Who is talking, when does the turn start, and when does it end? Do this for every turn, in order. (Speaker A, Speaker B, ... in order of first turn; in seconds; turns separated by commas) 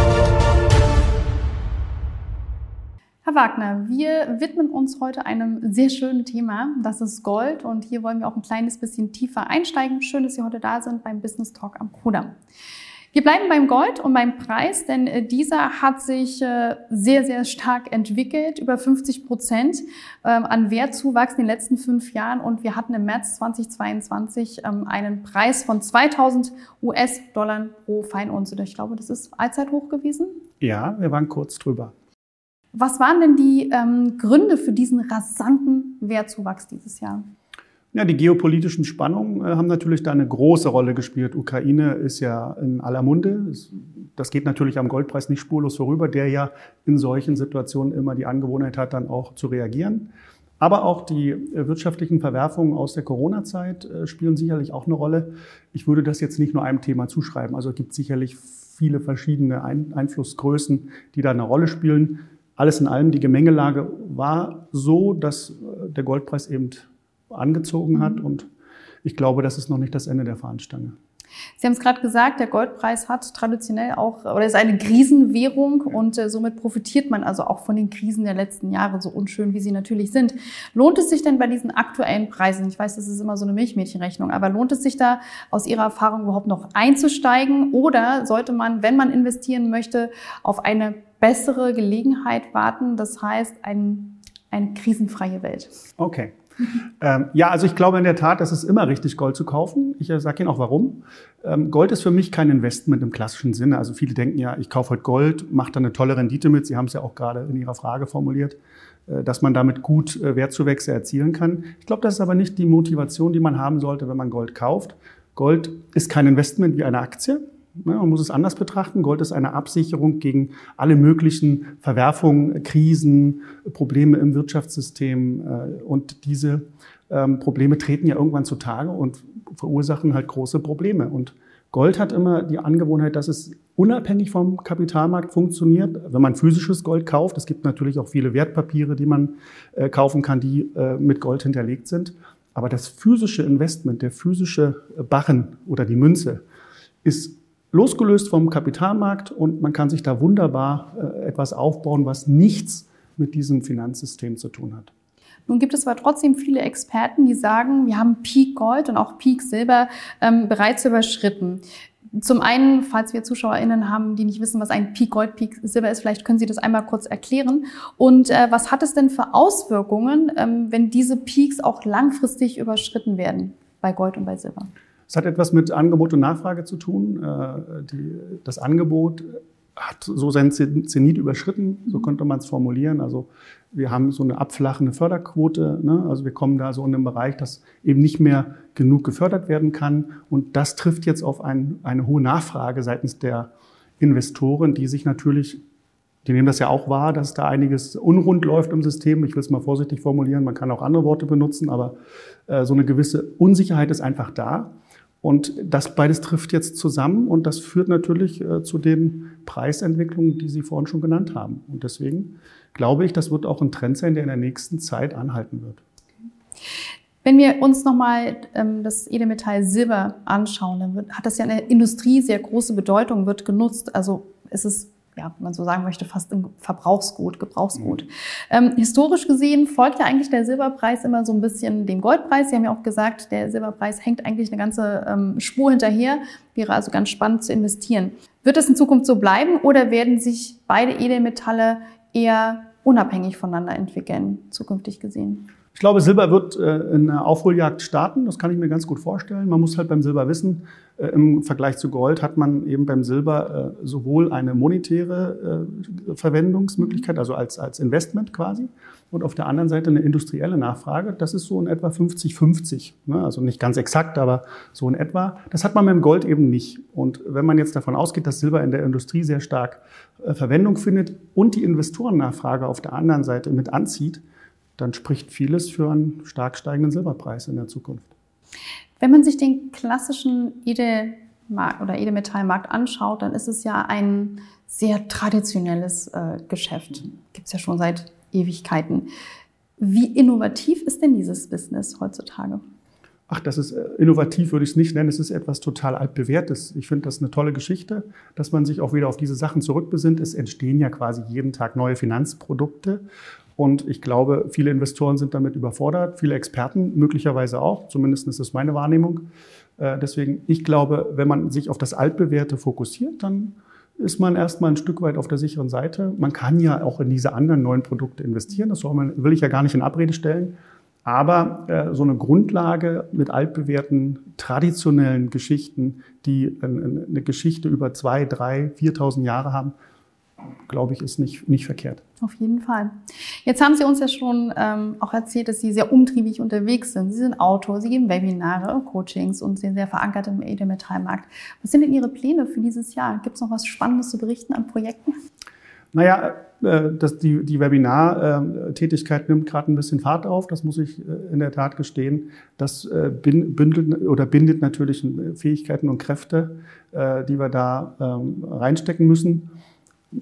Speaker A: 3.2-12.3, Speaker A: 13.1-30.4, Speaker B: 30.6-31.9, Speaker A: 32.7-37.2, Speaker B: 37.9-50.1, Speaker B: 50.6-68.5, Speaker B: 69.0-71.0, Speaker A: 71.6-95.7, Speaker B: 96.0-96.3, Speaker B: 97.0-146.4, Speaker B: 147.0-154.9, Speaker A: 155.5-161.6, Speaker A: 162.1-174.7, Speaker B: 175.1-193.5, Speaker B: 194.0-195.6, Speaker B: 196.2-201.9, Speaker B: 202.5-215.8, Speaker A: 217.2-245.5, Speaker B: 245.7-274.2, Speaker B: 274.8-278.1, Speaker A: 279.0-289.1, Speaker A: 289.8-292.6, Speaker B: 293.3-303.0, Speaker B: 303.6-309.2, Speaker B: 309.8-320.5, Speaker B: 321.0-329.7, Speaker B: 330.7-332.0, Speaker A: 332.2-345.1, Speaker B: 345.9-359.5